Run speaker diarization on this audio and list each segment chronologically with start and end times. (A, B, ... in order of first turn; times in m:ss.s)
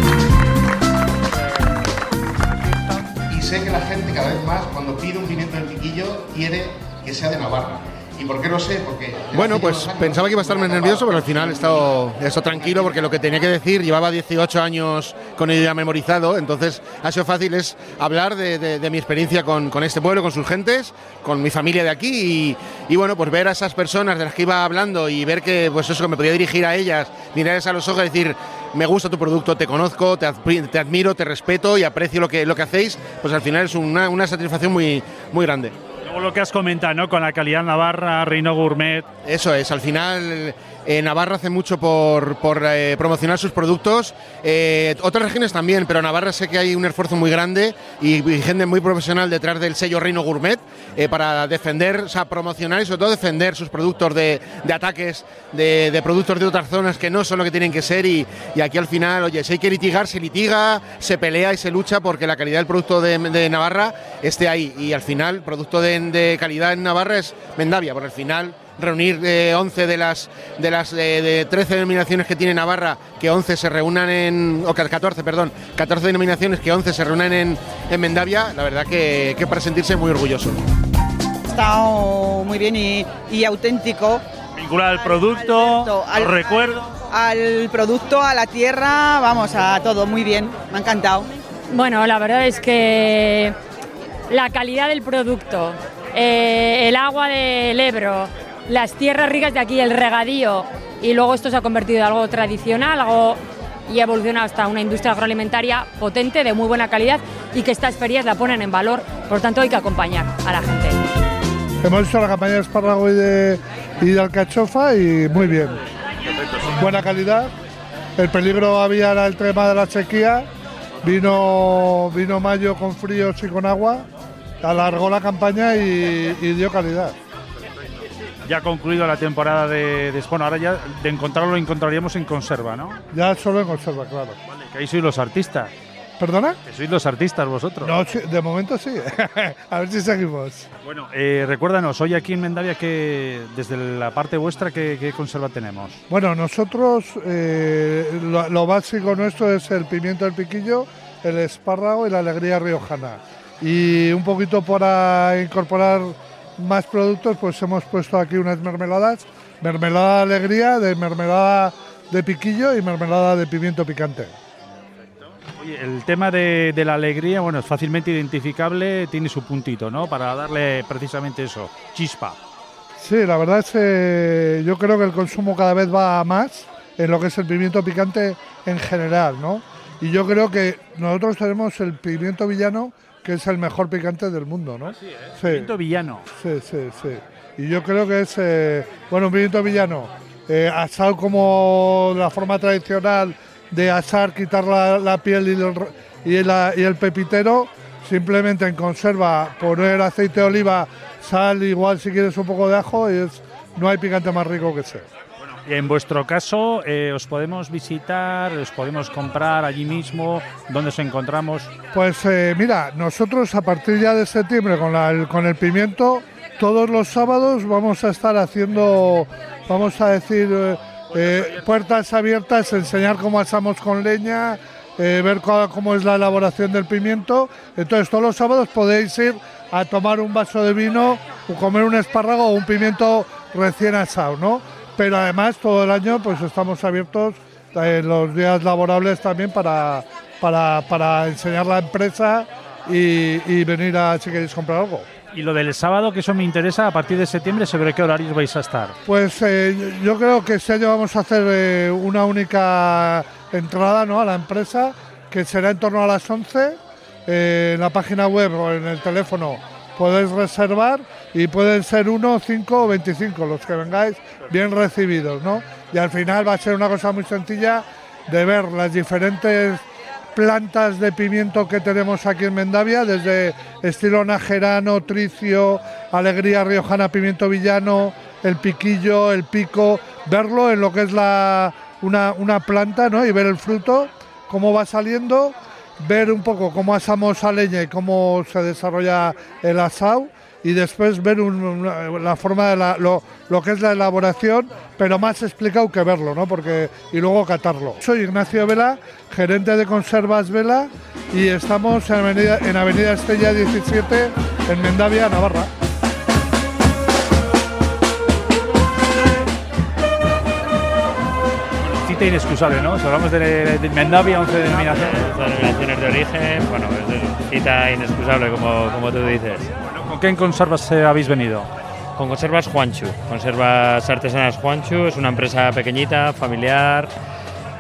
0:03.3-0:11.0 A
0:09.3-0:35.7 B
0:36.1-0:39.1 C
0:39.2-1:20.6 B
1:21.5-1:24.2 D
1:24.6-1:26.9 C
1:24.9-1:31.3 D
1:31.7-1:33.6 E
1:34.3-1:51.1 E
1:51.8-1:55.8 F
1:56.8-1:57.5 F
1:58.2-2:00.5 F
2:01.0-2:04.1 F
2:04.6-2:07.2 F
2:08.4-2:13.0 C
2:13.1-2:14.4 F
2:14.5-2:15.7 C
2:16.2-2:16.6 F
2:16.6-2:18.0 C
2:17.8-2:20.7 F
2:20.8-2:26.0 C
2:26.1-2:44.4 F
2:45.6-2:52.4 C
2:53.0-3:05.7 F
3:05.4-3:06.3 C
3:06.3-3:25.1 F
3:25.5-3:31.7 C
3:31.9-4:05.1 F
3:41.2-3:41.6 C
4:05.3-4:09.0 C
4:09.1-4:29.8 F
4:30.4-5:05.7 F
5:12.0-5:15.2 C
5:14.8-5:19.7 G
5:19.9-5:21.7 C
5:22.2-5:27.1 G